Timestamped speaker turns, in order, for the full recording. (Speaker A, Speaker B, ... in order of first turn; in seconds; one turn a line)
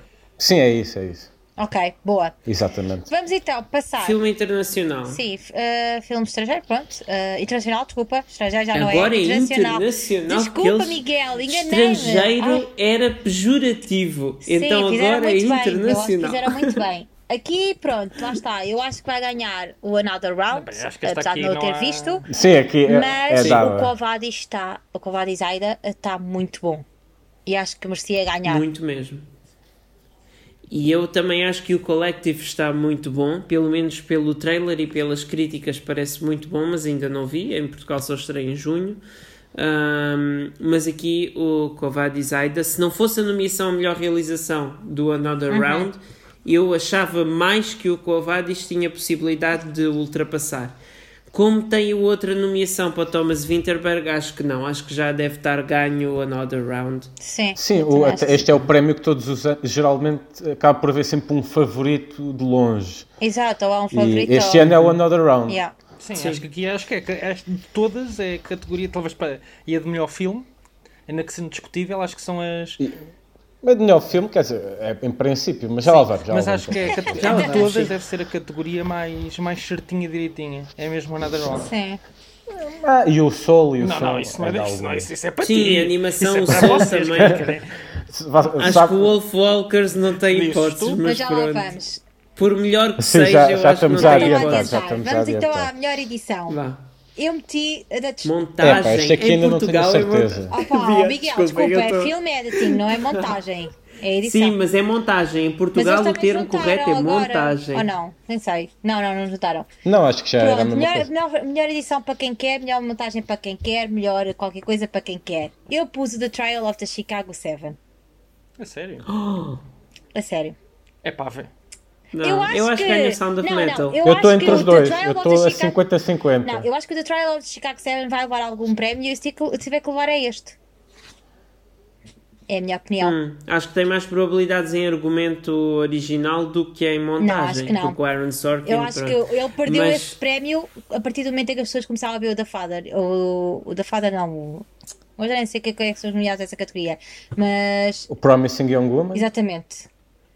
Speaker A: 0.4-1.3
Speaker B: 1.6-2.4
Speaker A: 2.5-3.1
Speaker B: 3.1-4.2
Speaker C: 4.0-5.2
Speaker B: 5.1-12.7
Speaker C: 8.7-16.8
Speaker B: 14.5-22.2
Speaker D: 20.5-22.2
Speaker A: 22.3-23.9
Speaker B: 22.9-26.9
Speaker B: 27.5-28.6
Speaker C: 28.4-29.2
Speaker C: 30.7-39.0
Speaker C: 39.5-50.8
Speaker B: 45.5-45.9
Speaker C: 51.3-57.1
Speaker B: 57.2-58.5
Speaker A: 57.5-63.1
Speaker B: 63.2-64.8
Speaker A: 63.9-65.6
Speaker B: 65.5-65.7
Speaker D: 66.0-70.5
Speaker C: 66.1-66.4
Speaker D: 71.1-72.8
Speaker A: 73.6-77.3
Speaker D: 75.8-81.7
Speaker C: 77.0-77.9
Speaker B: 81.7-82.0
Speaker A: 82.5-85.1
Speaker D: 83.8-87.7
Speaker C: 85.4-87.5
Speaker A: 86.5-87.5
Speaker A: 88.1-89.1
Speaker C: 88.6-91.8
Speaker D: 88.6-88.9
Speaker D: 90.3-91.0
Speaker B: 91.0-92.0
Speaker C: 92.4-94.8
Speaker A: 93.0-95.7
Speaker B: 93.9-96.6
Speaker C: 96.5-96.8
Speaker B: 97.2-98.8
Speaker C: 98.2-103.2
Speaker A: 98.6-100.5
Speaker B: 100.5-104.6
Speaker C: 104.2-107.9
Speaker B: 105.8-109.7
Speaker A: 109.8-111.1
Speaker B: 110.4-117.8
Speaker D: 118.6-119.1
Speaker C: 119.1-119.6
Speaker B: 120.1-120.5
Speaker D: 121.0-121.5
Speaker C: 122.1-124.5
Speaker B: 122.2-125.8
Speaker A: 124.0-126.7
Speaker B: 126.4-130.6
Speaker B: 132.5-133.2
Speaker C: 133.0-140.2
Speaker B: 137.2-138.0
Speaker B: 138.7-148.1
Speaker A: 148.1-149.3
Speaker B: 149.1-149.9